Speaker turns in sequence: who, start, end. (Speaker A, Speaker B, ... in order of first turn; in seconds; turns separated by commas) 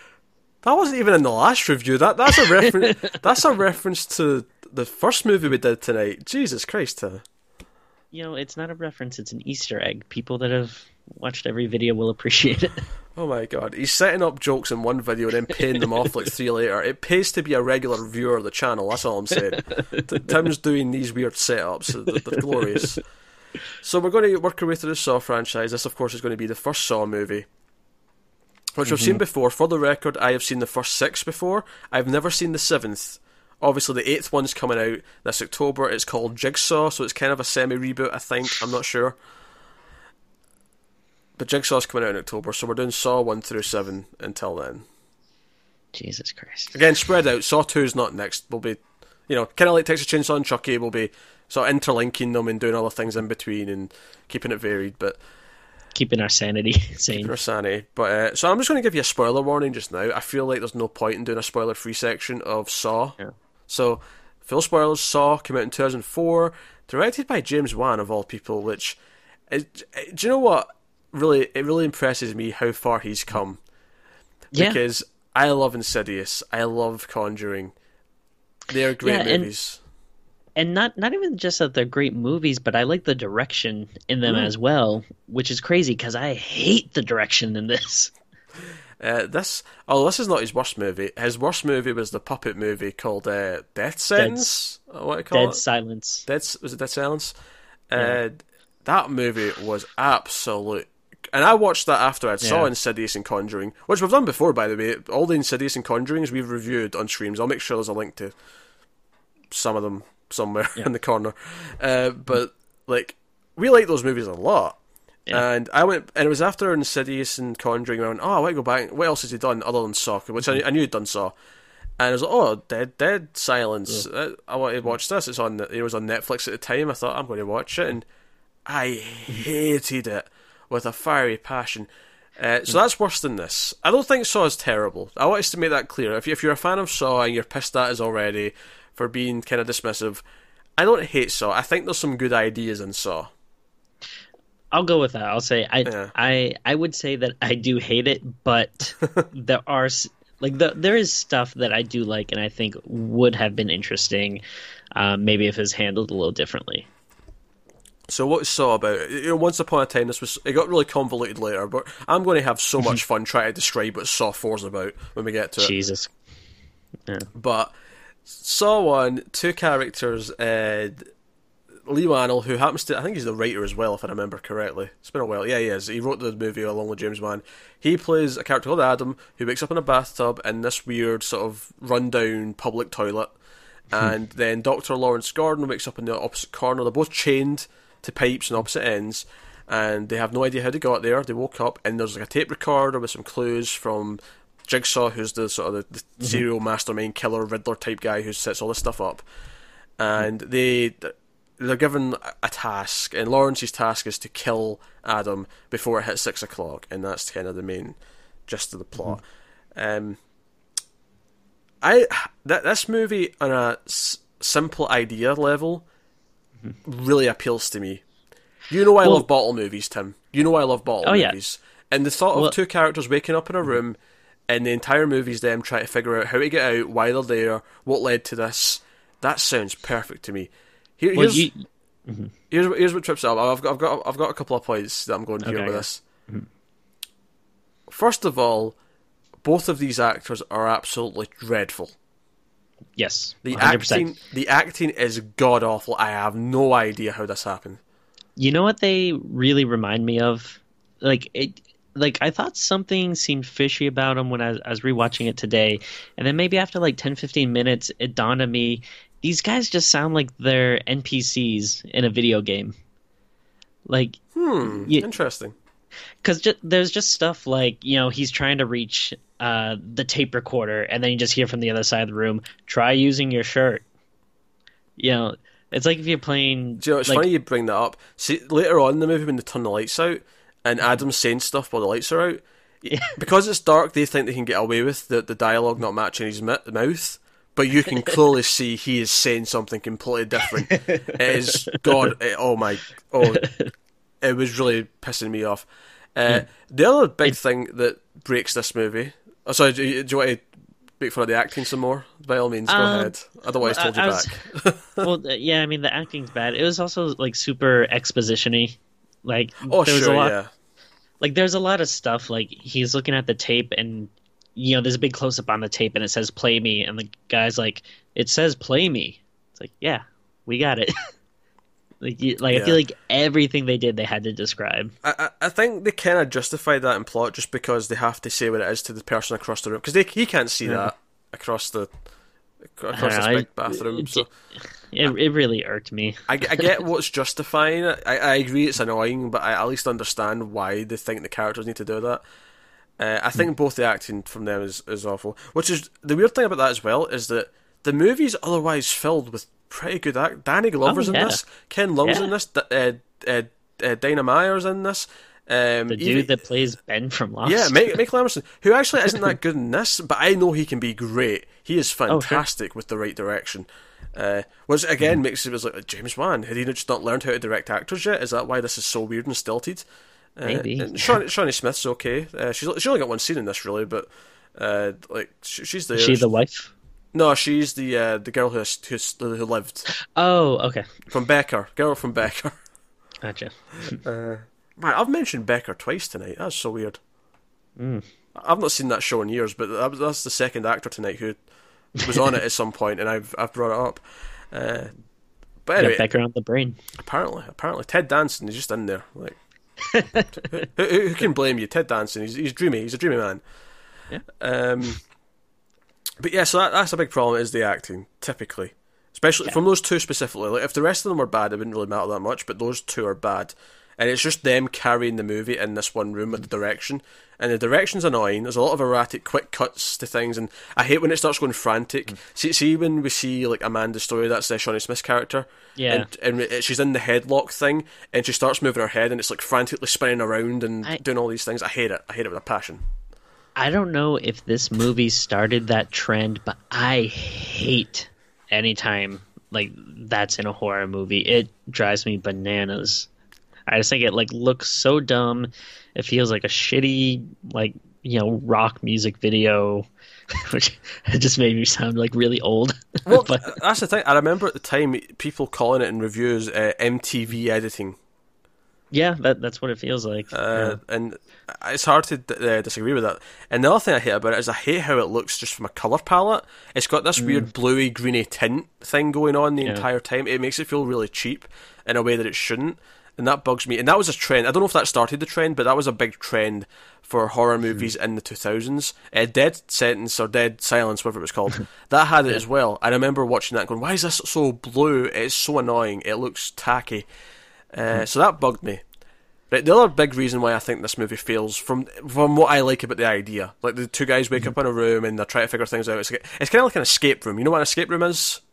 Speaker A: 0.6-7.2, Speaker B: 2.4-3.1, Speaker B: 8.1-12.8, Speaker A: 13.2-23.0, Speaker B: 19.7-20.1, Speaker B: 22.1-23.0, Speaker A: 23.8-27.4, Speaker A: 28.7-39.1, Speaker B: 28.9-29.2, Speaker A: 41.4-44.9, Speaker B: 45.9-46.8, Speaker A: 46.7-55.2, Speaker B: 55.9-57.3, Speaker A: 57.1-63.2, Speaker A: 63.7-69.0, Speaker A: 69.5-73.6, Speaker B: 74.5-74.8, Speaker A: 74.5-77.7, Speaker A: 78.7-79.8, Speaker B: 79.0-79.5, Speaker B: 80.6-88.1, Speaker A: 89.0-95.6, Speaker B: 94.2-94.5, Speaker B: 95.3-96.2, Speaker A: 96.2-97.3, Speaker A: 97.9-108.3, Speaker B: 102.4-102.7, Speaker A: 109.5-114.8, Speaker A: 115.3-121.3, Speaker A: 122.0-128.0, Speaker A: 128.7-140.2, Speaker A: 140.8-143.3, Speaker B: 144.7-154.4, Speaker A: 145.8-146.1, Speaker B: 154.9-156.9, Speaker A: 158.1-165.7, Speaker B: 165.6-166.1, Speaker A: 167.3-167.7, Speaker A: 168.3-171.0, Speaker A: 171.8-183.3, Speaker A: 183.9-199.2, Speaker A: 200.0-209.2, Speaker A: 209.7-210.2, Speaker A: 211.8-215.8, Speaker A: 216.8-218.0, Speaker A: 218.7-224.0, Speaker B: 221.0-221.3, Speaker A: 224.5-231.5, Speaker B: 231.1-232.3, Speaker A: 232.5-236.0, Speaker B: 235.4-236.5, Speaker A: 237.9-238.8, Speaker A: 239.4-241.9, Speaker B: 243.0-244.1, Speaker A: 243.4-247.8, Speaker B: 248.4-262.7, Speaker B: 263.9-265.1, Speaker A: 264.3-265.5, Speaker B: 266.2-273.8, Speaker B: 275.0-277.2, Speaker A: 276.8-282.4, Speaker B: 282.8-283.1, Speaker A: 283.1-293.4, Speaker B: 290.7-292.1, Speaker B: 293.2-293.7, Speaker A: 294.2-300.4, Speaker A: 301.0-305.1, Speaker B: 302.7-304.3, Speaker B: 305.0-310.3, Speaker A: 309.6-310.5, Speaker B: 311.2-320.9, Speaker B: 322.0-324.9, Speaker A: 322.5-322.8, Speaker A: 325.0-331.9, Speaker B: 330.6-330.9, Speaker A: 332.7-334.3, Speaker B: 332.9-334.3, Speaker B: 334.9-336.7, Speaker A: 336.3-342.2, Speaker A: 343.0-356.3, Speaker B: 350.9-351.4, Speaker B: 355.9-357.9, Speaker A: 357.4-376.2, Speaker B: 362.1-362.4, Speaker B: 370.4-371.2, Speaker B: 375.9-376.7, Speaker A: 377.1-379.9, Speaker B: 380.1-381.0, Speaker A: 381.1-382.6, Speaker B: 383.2-384.0, Speaker A: 383.9-387.0, Speaker B: 387.8-388.0, Speaker A: 388.3-391.4, Speaker A: 391.9-394.9, Speaker A: 395.6-396.1, Speaker B: 395.8-396.8, Speaker A: 396.9-399.4, Speaker B: 399.9-400.6, Speaker A: 400.4-403.4, Speaker A: 404.4-405.0, Speaker A: 406.2-432.8, Speaker B: 425.8-426.1, Speaker B: 433.6-443.1, Speaker B: 443.7-453.6, Speaker A: 453.1-458.0, Speaker B: 458.9-460.8, Speaker A: 460.3-487.1, Speaker B: 467.2-467.5, Speaker A: 487.7-488.8, Speaker A: 489.5-498.4